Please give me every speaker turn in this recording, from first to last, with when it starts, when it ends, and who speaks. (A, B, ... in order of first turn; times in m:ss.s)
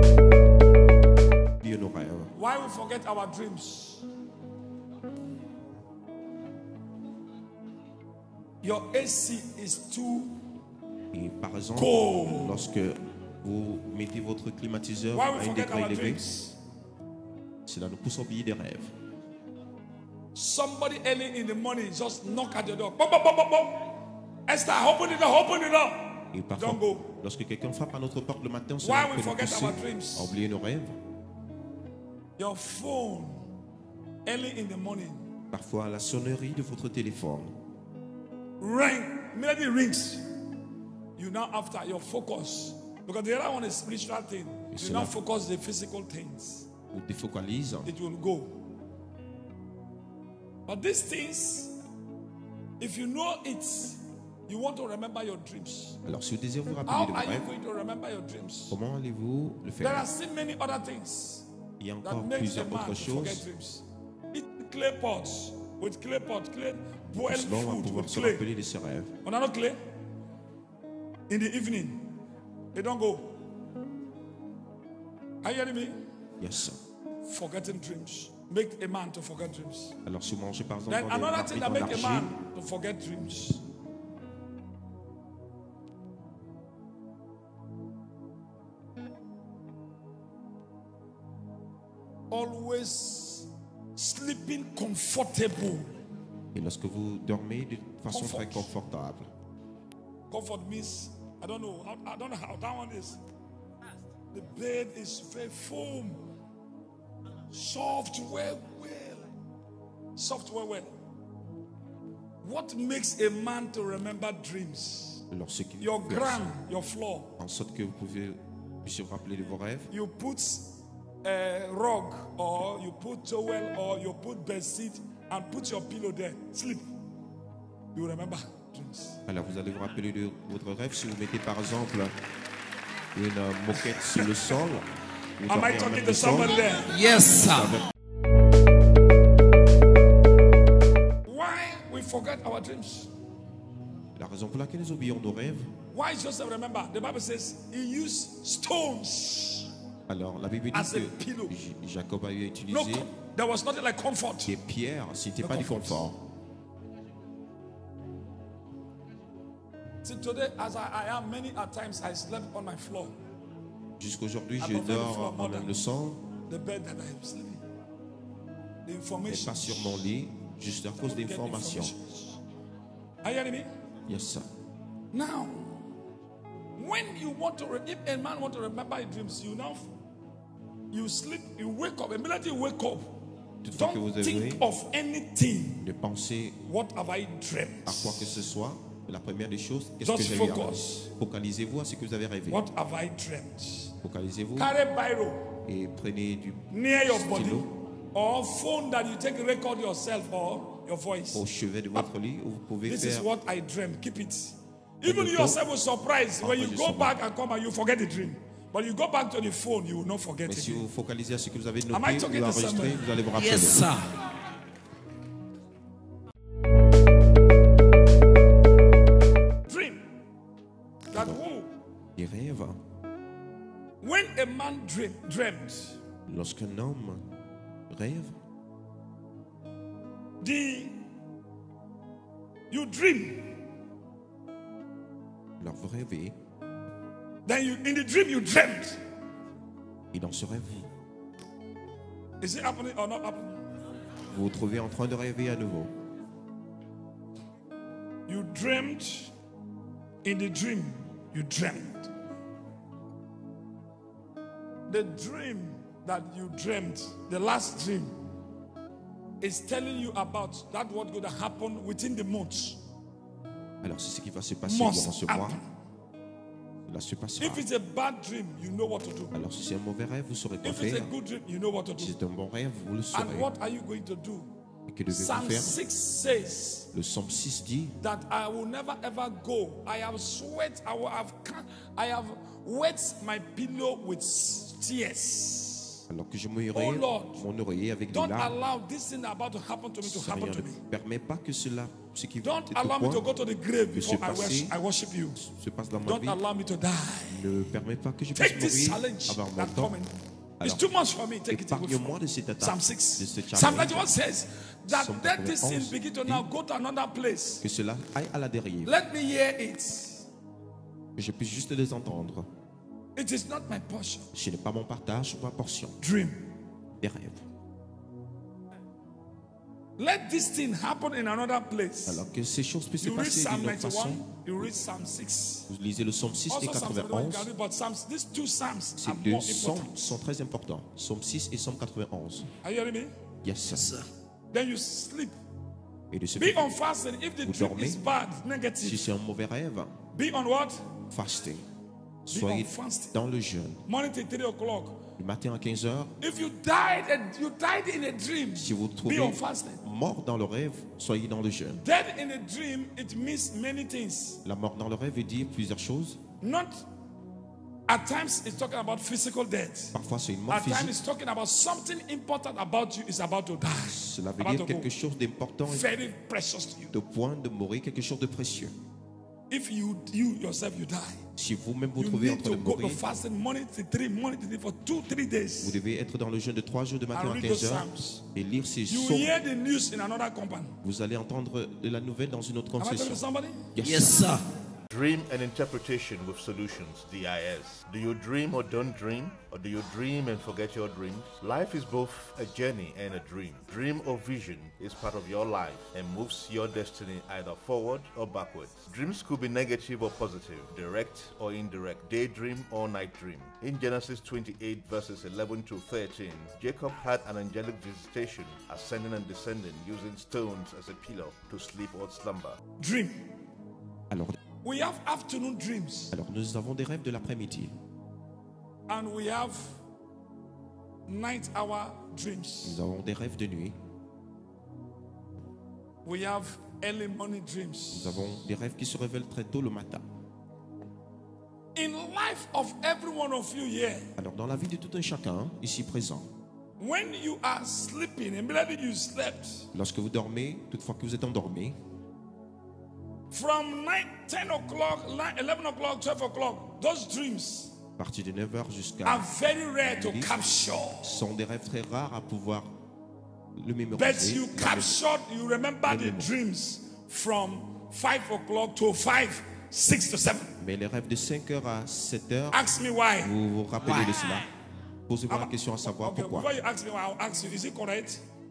0:01.6-0:02.3 A
0:02.3-0:04.1 B
0:08.6-0:10.4 B
0:11.1-0:16.2 A
0:11.8-0:12.6 B
0:15.1-0:16.6 B
0:17.6-0:18.9 A
0:20.3-0:24.0 B
0:24.5-0:27.1 B
0:26.3-0:31.0 A
0:28.8-0:30.3 B
0:32.4-0:33.5 B
0:34.2-0:35.3 B
0:35.5-0:37.5 A
0:38.6-0:40.3 B
0:41.2-0:46.7 B
0:44.7-0:45.1 A
0:46.9-0:47.9 A
0:47.8-0:48.6 B
0:50.6-0:51.8 B
0:52.8-0:56.0 B
0:56.0-0:57.5 A
0:56.8-0:58.8 B
0:58.7-1:00.1 A
0:59.8-1:01.5 B
1:01.8-1:03.4 A
1:02.0-1:08.4 B
1:07.2-1:09.1 A
1:09.2-1:09.8 B
1:11.3-1:12.1 B
1:12.7-1:13.4 B
1:15.4-1:16.0 B
1:16.4-1:16.8 A
1:17.2-1:20.0 B
1:20.0-1:22.4 A
1:20.9-1:23.6 B
1:32.3-1:35.9 B
1:36.5-1:39.3 A
1:38.1-1:38.7 B
1:40.3-1:43.2 B
1:44.3-1:46.2 B
1:47.5-1:49.3 B
1:50.2-1:50.9 B
1:52.4-1:55.2 B
1:55.3-1:56.4 A
1:55.8-1:57.3 B
1:57.4-1:59.9 A
1:59.9-2:06.9 B
2:07.9-2:09.2 B
2:09.3-2:12.1 A
2:13.1-2:17.9 A
2:15.4-2:17.0 B
2:16.9-2:17.7 C
2:21.2-2:23.1 B
2:24.1-2:25.7 A
2:25.9-2:29.7 B
2:30.1-2:33.1 A
2:30.7-2:31.5 B
2:32.7-2:34.6 B
2:34.4-2:36.2 A
2:35.4-2:36.0 B
2:40.0-2:43.1 B
2:44.0-2:46.2 A
2:44.6-2:45.8 B
2:46.5-2:47.6 B
2:48.8-2:50.1 B
2:49.3-2:51.9 A
2:51.0-2:52.4 B
2:53.2-2:53.7 B
2:54.1-2:54.5 A
2:55.1-2:55.8 B
2:56.8-2:59.9 B
3:00.9-3:03.2 B
3:03.6-3:04.7 A
3:03.7-3:05.8 B
3:05.8-3:06.6 A
3:06.6-3:08.4 B
3:07.8-3:12.6 A
3:10.0-3:11.1 B
3:12.5-3:14.0 B
3:14.0-3:14.8 A
3:14.6-3:15.6 B
3:15.6-3:17.7 A
3:16.7-3:21.4 B
3:21.3-3:23.3 A
3:22.8-3:30.8 B
3:25.0-3:25.6 A
3:26.4-3:27.2 A
3:30.4-3:33.9 A
3:31.9-3:33.1 B
3:33.4-3:34.1 C
3:39.7-3:40.1 B
3:41.1-3:41.7 B
3:41.1-3:41.4 A
3:42.2-3:42.8 A
3:44.0-3:46.0 B
3:46.3-3:47.3 A
3:47.9-3:48.4 A
3:50.4-3:51.0 B
3:52.7-3:53.6 B
3:55.6-3:56.4 A
3:57.4-3:59.0 B
4:00.1-4:00.9 A
4:02.4-4:03.6 B
4:04.3-4:05.9 A
4:08.3-4:09.3 B
4:10.2-4:12.1 B
4:14.9-4:18.2 B
4:19.4-4:22.8 B
4:23.8-4:25.6 A
4:24.6-4:25.7 B
4:26.9-4:27.6 A
4:27.4-4:29.3 B
4:29.3-4:31.1 A
4:30.6-4:32.2 B
4:32.0-4:33.5 A
4:33.1-4:34.5 B
4:34.9-4:35.8 A
4:35.1-4:36.9 B
4:36.9-4:38.0 A
4:38.0-4:46.0 B
4:46.1-4:48.6 A
4:46.7-4:47.4 B
4:48.1-4:50.8 B
4:50.0-4:53.3 A
4:52.4-4:55.4 B
4:53.9-4:54.8 A
4:55.4-4:56.4 A
4:56.0-4:57.5 B
4:57.3-5:00.0 A
4:58.3-5:07.6 B
5:00.6-5:00.9 A
5:01.5-5:04.1 A
5:04.9-5:06.5 A
5:07.6-5:09.0 A
5:08.8-5:10.2 B
5:11.2-5:12.5 A
5:13.2-5:14.3 B
5:14.3-5:16.0 A
5:16.0-5:16.4 B
5:17.0-5:17.4 A
5:20.0-5:22.2 B
5:22.0-5:24.7 A
5:23.0-5:25.7 B
5:25.7-5:27.5 A
5:26.5-5:30.2 B
5:29.0-5:32.5 A
5:32.6-5:33.2 B
5:33.4-5:34.0 A
5:34.5-5:35.4 B
5:36.1-5:36.7 A
5:36.4-5:39.0 B
5:37.4-5:38.0 A
5:38.8-5:39.9 A
5:40.1-5:41.0 B
5:41.1-5:41.6 A
5:42.2-5:43.8 A
5:42.3-5:43.1 B
5:43.8-5:45.1 B
5:45.2-5:46.1 A
5:46.2-5:49.8 B
5:48.6-5:51.8 A
5:51.8-5:54.4 B
5:54.4-5:56.2 A
5:56.4-5:56.9 B
5:57.9-5:59.9 B
5:59.9-6:01.0 A
6:00.5-6:04.9 B
6:03.7-6:05.9 A
6:05.6-6:06.9 B
6:06.9-6:08.7 A
6:09.5-6:11.2 B
6:11.4-6:13.0 A
6:12.0-6:15.8 B
6:15.6-6:19.4 A
6:17.1-6:18.2 B
6:18.9-6:20.8 B
6:20.8-6:23.2 A
6:22.8-6:23.7 B
6:23.7-6:24.4 A
6:23.8-6:24.4 C
6:24.9-6:52.6 D
6:52.8-6:53.2 B
6:54.1-6:54.4 A
6:54.6-6:56.1 B
6:56.1-6:57.7 A
6:58.9-6:59.8 B
7:01.1-7:02.8 B
7:02.6-7:03.8 A
7:06.0-7:08.3 B
7:07.9-7:10.0 A
7:11.7-7:14.1 B
7:14.2-7:16.2 A
7:16.8-7:19.7 B
7:19.7-7:21.8 A
7:23.3-7:27.7 B
7:28.0-7:29.3 A
7:29.0-7:31.2 B
7:29.8-7:32.7 A
7:33.6-7:35.1 A
7:33.9-7:40.6 B
7:35.8-7:36.3 A
7:40.6-7:42.6 A
7:42.5-7:43.3 B
7:43.2-7:44.5 A
7:45.1-7:46.5 A
7:45.3-7:48.2 B